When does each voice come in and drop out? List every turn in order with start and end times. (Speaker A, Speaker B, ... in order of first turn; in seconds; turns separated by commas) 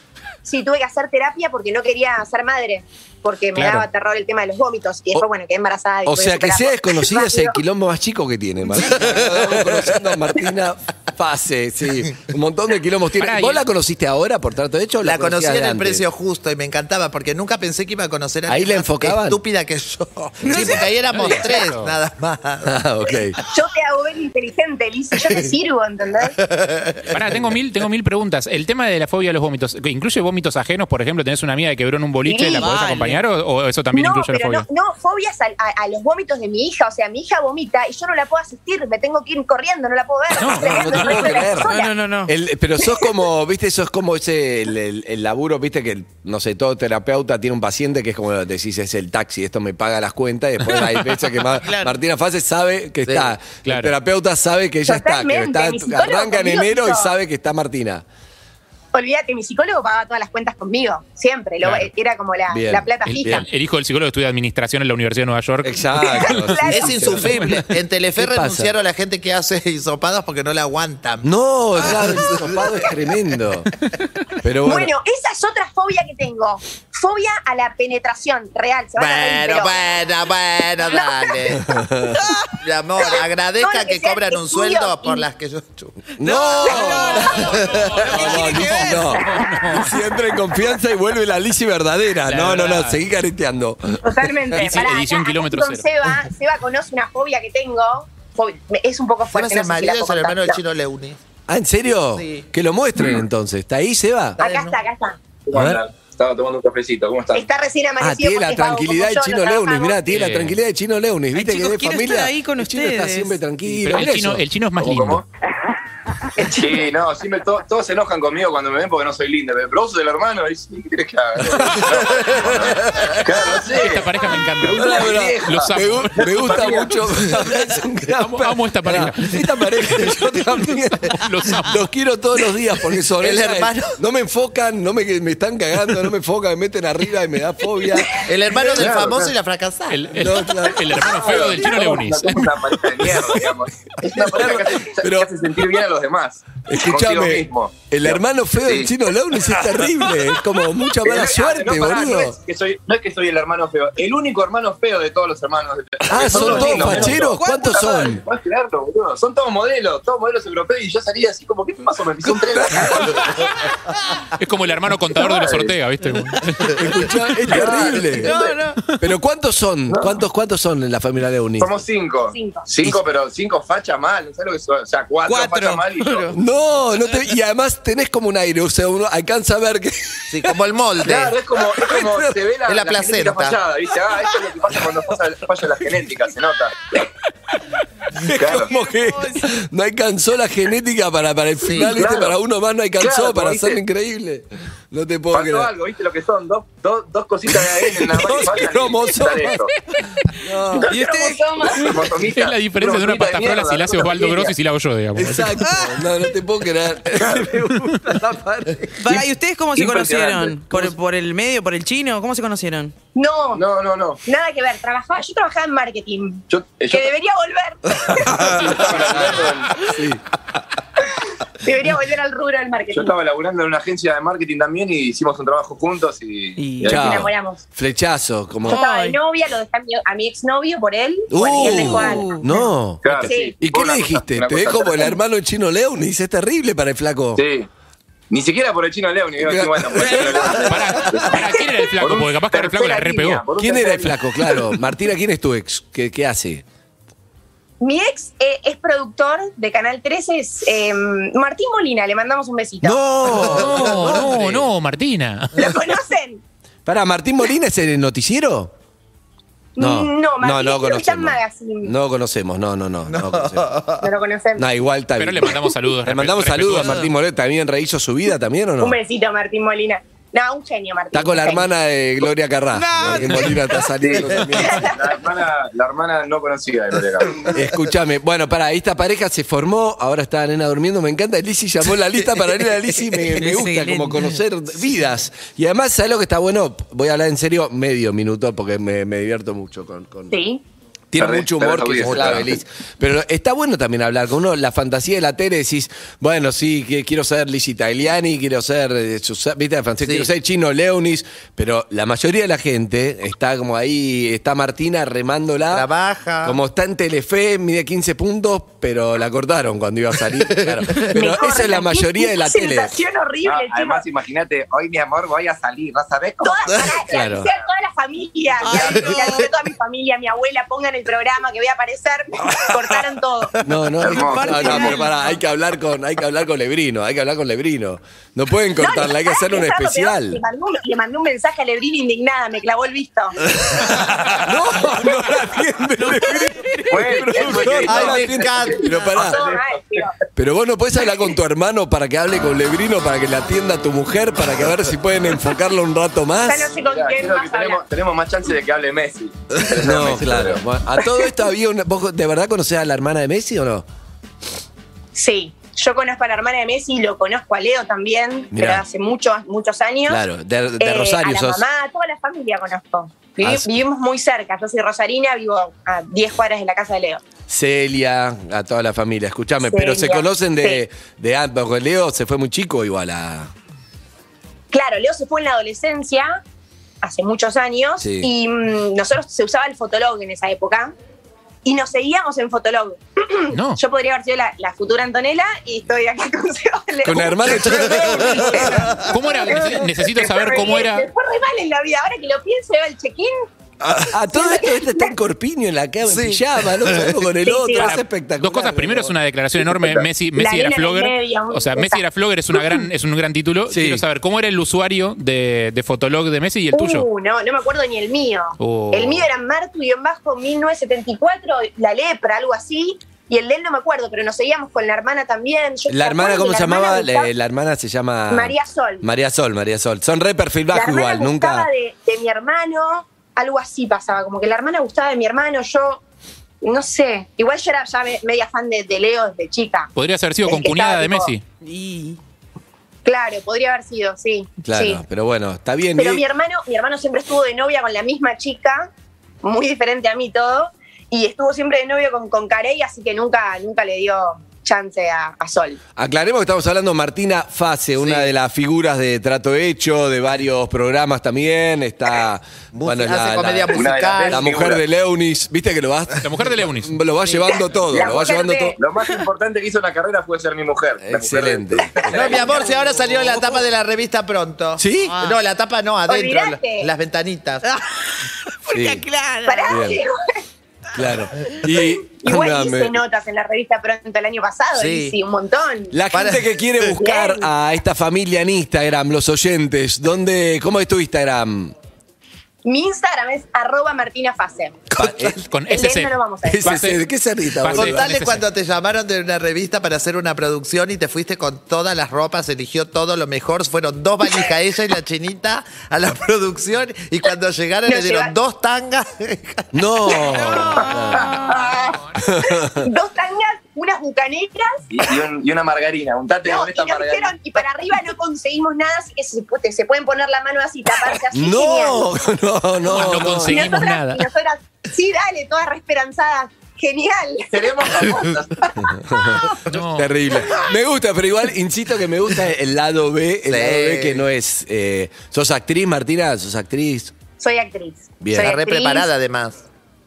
Speaker A: 0.4-7.6, Speaker B: 3.5-3.9, Speaker C: 6.1-16.1, Speaker D: 8.7-10.2, Speaker B: 13.2-13.6, Speaker D: 15.0-22.8, Speaker C: 18.5-19.4, Speaker E: 20.4-20.9, Speaker B: 21.1-21.9, Speaker C: 22.6-23.4, Speaker A: 23.5-26.4, Speaker D: 26.6-27.2, Speaker B: 27.1-34.7, Speaker A: 32.3-32.7, Speaker E: 32.5-33.2, Speaker A: 33.9-42.0, Speaker B: 40.4-41.5, Speaker C: 40.5-58.0, Speaker E: 41.6-42.3, Speaker E: 51.6-51.9, Speaker D: 53.1-53.3, Speaker B: 53.6-53.9, Speaker A: 54.9-57.1, Speaker A: 58.9-63.5, Speaker B: 61.6-61.9, Speaker C: 62.5-63.5, Speaker B: 63.1-66.4, Speaker C: 65.6-67.5, Speaker A: 66.0-67.0, Speaker D: 66.7-71.3, Speaker B: 67.3-67.6, Speaker C: 68.2-68.7, Speaker C: 71.2-73.7, Speaker D: 71.8-72.4, Speaker C: 74.4-74.9, Speaker A: 74.6-79.8, Speaker D: 79.0-81.8, Speaker C: 81.6-82.2, Speaker D: 82.6-86.1, Speaker A: 83.6-85.3, Speaker C: 86.2-87.5, Speaker E: 86.2-89.1, Speaker D: 87.0-88.5, Speaker B: 87.2-90.0, Speaker C: 88.0-94.3, Speaker B: 92.3-93.0, Speaker A: 94.0-100.6, Speaker B: 94.6-95.8, Speaker D: 99.3-101.2, Speaker C: 101.5-104.4, Speaker D: 104.4-104.8, Speaker A: 104.4-105.2, Speaker F: 105.5-107.5, Speaker C: 105.5-105.8, Speaker A: 107.3-110.0, Speaker C: 108.0-114.4, Speaker B: 110.1-110.6, Speaker E: 111.3-113.4, Speaker B: 113.7-115.2, Speaker F: 114.8-115.2, Speaker F: 116.4-127.1, Speaker C: 121.5-123.3, Speaker B: 123.7-126.6, Speaker C: 124.8-138.3, Speaker B: 128.1-129.5, Speaker B: 130.8-131.8, Speaker D: 133.2-133.9, Speaker D: 138.2-140.0, Speaker F: 138.6-139.3, Speaker B: 139.9-142.4, Speaker C: 140.1-141.6, Speaker F: 141.0-148.9, Speaker C: 144.2-145.3, Speaker C: 146.7-152.4, Speaker F: 151.0-163.5, Speaker C: 156.1-158.2, Speaker D: 156.3-157.2, Speaker E: 156.7-158.1, Speaker C: 162.5-163.1, Speaker B: 164.4-166.8, Speaker F: 165.3-165.8, Speaker C: 166.7-168.4, Speaker F: 167.5-168.6, Speaker E: 168.2-168.8, Speaker C: 168.9-171.8, Speaker F: 169.9-170.2, Speaker F: 171.6-176.3, Speaker A: 172.3-172.7, Speaker E: 175.3-176.3, Speaker C: 176.3-180.6, Speaker D: 180.3-181.3, Speaker F: 181.0-187.1, Speaker C: 181.8-182.4, Speaker D: 182.7-183.6, Speaker C: 188.2-195.7, Speaker F: 188.3-188.7, Speaker E: 188.6-189.5, Speaker D: 191.6-192.0, Speaker F: 191.8-192.4, Speaker F: 193.0-193.8, Speaker F: 195.3-199.7, Speaker C: 197.5-199.7, Speaker C: 200.4-200.9, Speaker F: 200.8-204.6, Speaker E: 200.9-202.0, Speaker A: 201.1-202.0, Speaker B: 202.2-205.6, Speaker C: 205.2-209.3, Speaker E: 205.6-206.1, Speaker F: 207.2-207.5, Speaker E: 209.0-212.9, Speaker F: 209.7-210.9, Speaker A: 213.2-213.6, Speaker F: 213.5-214.2, Speaker A: 214.3-219.2, Speaker F: 216.5-217.1, Speaker F: 218.3-219.8, Speaker C: 219.8-220.2, Speaker A: 221.6-223.1, Speaker F: 222.9-227.2, Speaker E: 226.6-226.9, Speaker C: 226.8-228.8, Speaker A: 226.8-227.6, Speaker A: 228.7-232.3, Speaker E: 228.7-229.2, Speaker C: 231.3-237.4, Speaker E: 231.6-232.7, Speaker F: 233.0-235.2, Speaker A: 233.2-233.5, Speaker F: 237.4-237.7, Speaker F: 238.3-244.2, Speaker C: 239.4-241.2, Speaker B: 240.6-243.4, Speaker C: 243.6-246.6, Speaker A: 247.8-253.0, Speaker C: 252.8-254.7, Speaker D: 253.3-254.3, Speaker B: 253.4-255.5, Speaker A: 255.6-256.4, Speaker C: 256.9-258.7, Speaker A: 259.8-261.9, Speaker C: 259.8-263.7, Speaker D: 263.1-264.1, Speaker A: 264.0-264.6, Speaker C: 264.6-269.0, Speaker B: 265.2-267.1, Speaker A: 268.8-271.7, Speaker C: 271.1-274.9, Speaker E: 272.7-273.9, Speaker F: 274.0-277.5, Speaker A: 274.6-274.9, Speaker C: 277.5-290.4, Speaker E: 283.4-284.2, Speaker A: 290.3-290.6, Speaker C: 291.1-305.9, Speaker F: 291.2-292.6, Speaker D: 292.0-292.4, Speaker D: 300.0-300.3, Speaker D: 305.7-306.6, Speaker C: 306.4-313.0, Speaker D: 310.5-310.9, Speaker A: 311.1-314.1, Speaker F: 313.4-316.9, Speaker A: 316.4-323.5, Speaker C: 317.1-317.5, Speaker E: 318.6-319.5, Speaker F: 318.7-319.1, Speaker D: 318.8-319.3, Speaker C: 323.6-330.4, Speaker F: 324.0-325.1, Speaker E: 324.3-325.4, Speaker A: 328.8-333.4, Speaker C: 333.7-339.4, Speaker F: 336.9-339.8, Speaker D: 337.8-338.8, Speaker A: 339.1-340.1, Speaker C: 340.4-346.7, Speaker A: 346.4-347.8, Speaker F: 346.8-350.6, Speaker C: 349.8-353.9, Speaker A: 355.1-360.2, Speaker C: 358.5-358.8, Speaker C: 360.1-361.6, Speaker A: 360.8-367.2, Speaker C: 363.4-363.8, Speaker C: 367.5-373.5, Speaker A: 369.7-370.8, Speaker A: 374.7-376.4, Speaker A: 377.0-380.9, Speaker C: 378.0-378.3, Speaker A: 381.6-393.3, Speaker B: 383.5-383.8, Speaker C: 387.0-388.9, Speaker D: 387.5-389.1, Speaker B: 389.0-391.1, Speaker D: 393.8-394.1, Speaker C: 394.1-399.2, Speaker A: 394.3-395.1, Speaker D: 396.1-397.2, Speaker A: 397.4-398.0, Speaker B: 397.8-407.1, Speaker A: 400.4-402.0, Speaker A: 402.6-402.8, Speaker C: 403.7-404.0, Speaker A: 406.7-417.3, Speaker B: 408.6-409.3, Speaker C: 415.9-421.7, Speaker A: 418.3-419.1, Speaker A: 420.7-426.0, Speaker A: 426.6-429.9, Speaker B: 429.9-431.4, Speaker A: 430.4-431.4, Speaker E: 431.6-432.2, Speaker A: 433.1-435.0, Speaker C: 434.6-436.2, Speaker A: 435.9-438.9, Speaker A: 439.4-445.8, Speaker C: 446.0-458.8, Speaker F: 448.0-448.3, Speaker D: 452.7-454.4, Speaker F: 453.7-454.8, Speaker B: 456.2-457.0, Speaker A: 457.5-458.8, Speaker F: 457.9-462.6, Speaker C: 461.0-461.9, Speaker A: 462.0-462.4, Speaker D: 462.1-467.7, Speaker C: 464.8-465.2, Speaker A: 466.1-466.9, Speaker E: 468.4-469.9, Speaker C: 468.7-469.0, Speaker A: 469.5-470.1, Speaker C: 469.7-470.0, Speaker C: 470.9-473.0, Speaker A: 472.1-475.9, Speaker D: 474.8-475.1, Speaker C: 475.9-481.7, Speaker D: 476.1-476.4, Speaker A: 476.9-477.5, Speaker A: 482.6-484.8, Speaker C: 484.9-485.4, Speaker D: 485.0-485.4, Speaker B: 485.5-487.0, Speaker A: 485.7-486.9, Speaker C: 486.4-488.1, Speaker B: 487.6-488.4, Speaker D: 487.7-500.3, Speaker A: 497.9-498.4, Speaker C: 499.7-501.5, Speaker A: 500.4-500.9, Speaker A: 501.4-501.9, Speaker C: 502.2-502.9, Speaker A: 502.5-504.7, Speaker F: 504.9-507.6, Speaker A: 506.4-512.1, Speaker C: 511.3-513.7, Speaker B: 512.9-514.3, Speaker A: 513.4-518.1, Speaker F: 517.5-518.7, Speaker C: 518.8-527.1, Speaker B: 519.7-520.1, Speaker D: 523.5-524.2, Speaker A: 527.4-529.1, Speaker C: 528.2-528.5, Speaker D: 528.3-529.6